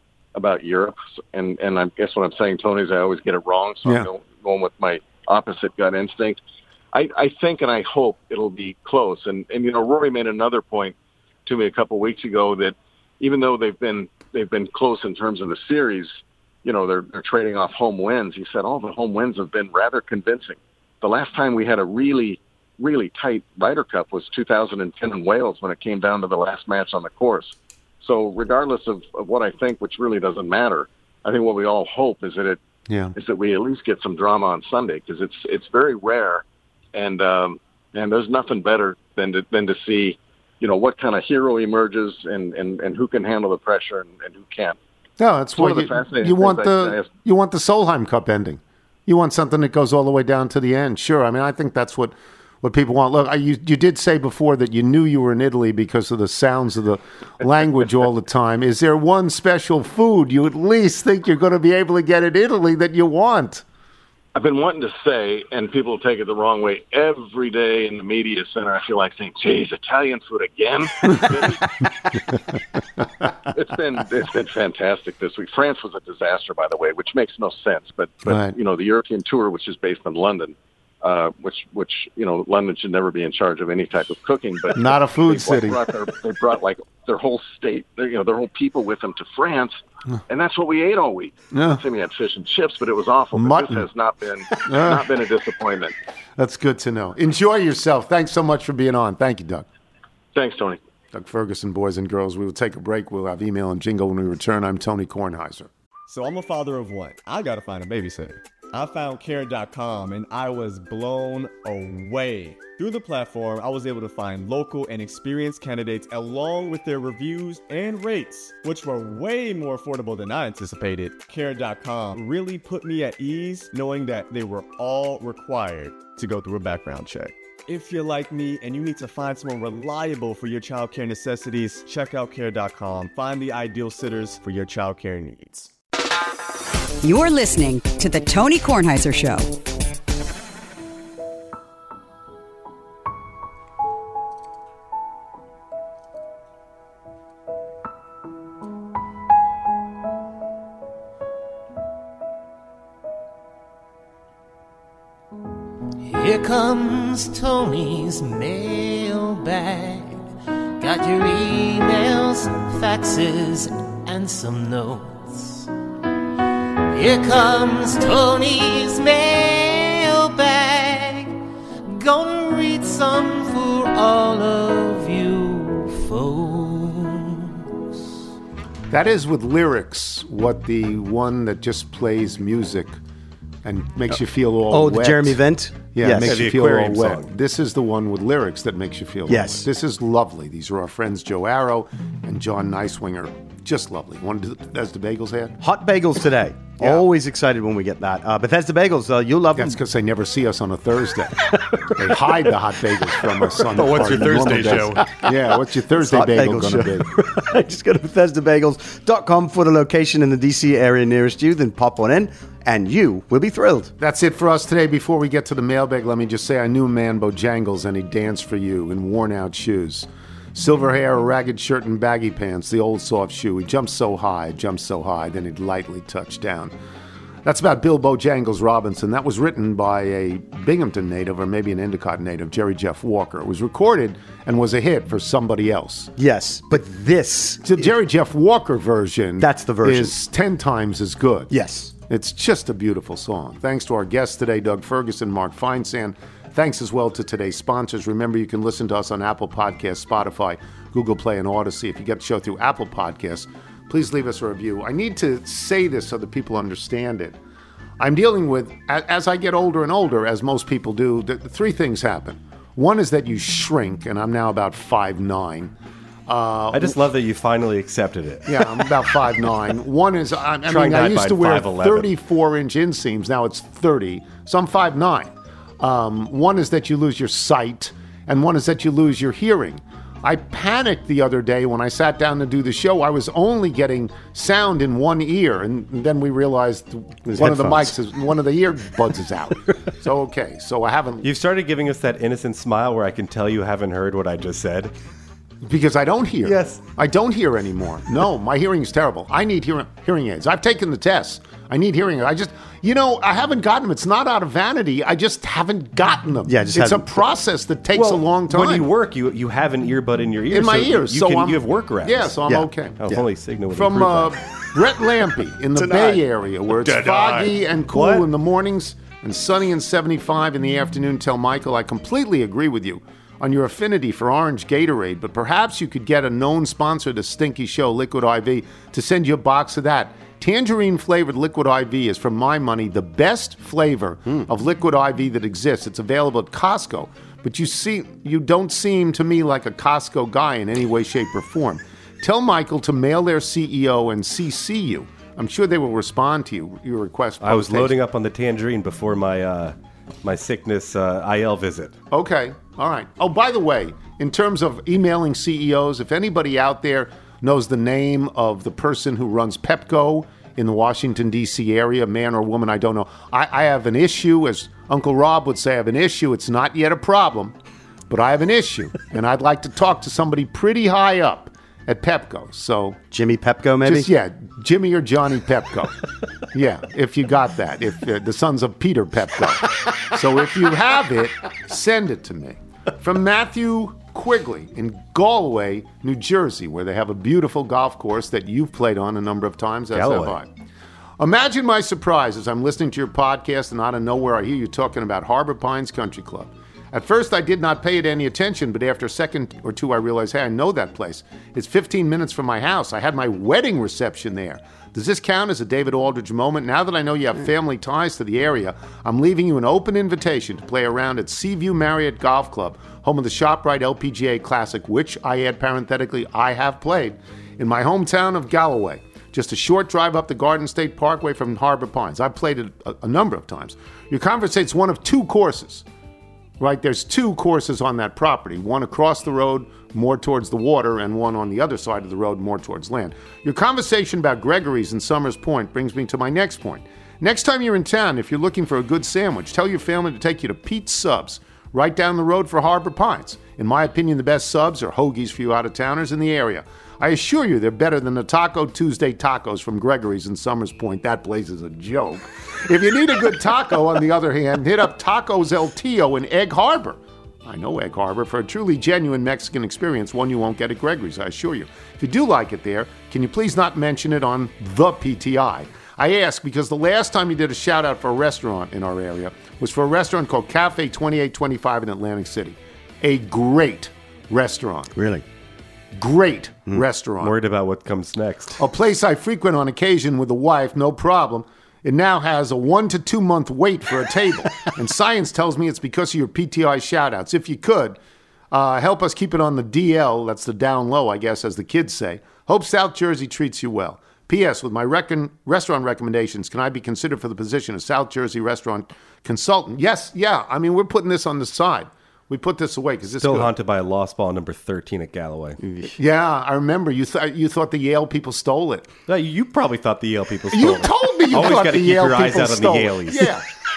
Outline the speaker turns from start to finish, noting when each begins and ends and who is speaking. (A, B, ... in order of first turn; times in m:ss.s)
0:00.3-0:06.4 A
0:06.9-0:10.9 A
0:11.4-0:32.6 A
0:32.9-0:33.1 B
0:33.1-0:44.8 A
0:45.2-1:03.6 B
0:45.5-0:47.1 A
1:04.3-1:12.4 A
1:13.4-1:35.9 A
1:18.2-1:18.5 B
1:24.7-1:25.8 B
1:31.5-1:31.8 B
1:33.3-1:33.8 B
1:34.6-1:35.0 B
1:36.4-1:39.6 B
1:40.3-1:40.8 A
1:41.1-1:45.7 B
1:46.1-2:15.7 C
2:17.0-2:19.5 D
2:36.0-2:40.3 E
2:40.8-2:45.7 E
2:46.9-2:51.4 E
2:51.9-2:57.5 E
2:58.9-3:03.0 B
3:03.6-3:05.4 B
3:04.7-3:06.4 F
3:05.9-3:15.6 B
3:06.2-3:07.3 G
3:09.3-3:09.7 F
3:15.6-3:19.8 F
3:16.8-3:17.0 B
3:19.6-3:21.4 B
3:22.0-3:27.1 B
3:23.7-3:33.9 F
3:23.8-3:25.0 C
3:34.0-3:46.7 B
3:47.4-3:56.1 B
3:56.2-3:57.9 F
3:57.6-4:01.5 B
3:59.4-4:00.1 F
4:01.5-4:01.9 F
4:02.1-4:17.4 B
4:18.0-4:25.7 B
4:26.3-4:27.0 B
4:26.7-4:28.8 G
4:28.4-4:51.2 B
4:30.6-4:32.1 G
4:47.3-4:47.9 F
4:51.2-4:54.9 G
4:55.6-5:08.9 B
4:56.4-4:56.8 F
5:06.4-5:07.2 F
5:07.9-5:12.3 G
5:10.5-5:13.0 B
5:12.4-5:13.2 F
5:13.0-5:14.4 G
5:13.7-5:47.9 B
5:15.7-5:16.2 F
5:17.9-5:18.2 F
5:47.4-5:52.0 G
5:52.1-6:07.5 B
6:08.1-6:13.0 B
6:13.1-6:14.1 F
6:13.8-6:16.0 B
6:16.5-6:30.5 B
6:29.9-6:30.4 G
6:31.2-7:05.8 B
7:06.6-7:54.9 B
7:54.9-7:55.2 F
7:55.9-7:57.3 B
7:57.2-7:58.6 G
7:58.6-8:08.0 B
8:08.5-8:23.5 B
8:23.2-8:25.6 G
8:25.6-8:25.9 F
8:26.0-8:28.9 B
8:29.1-8:33.3 G
8:30.5-8:33.4 B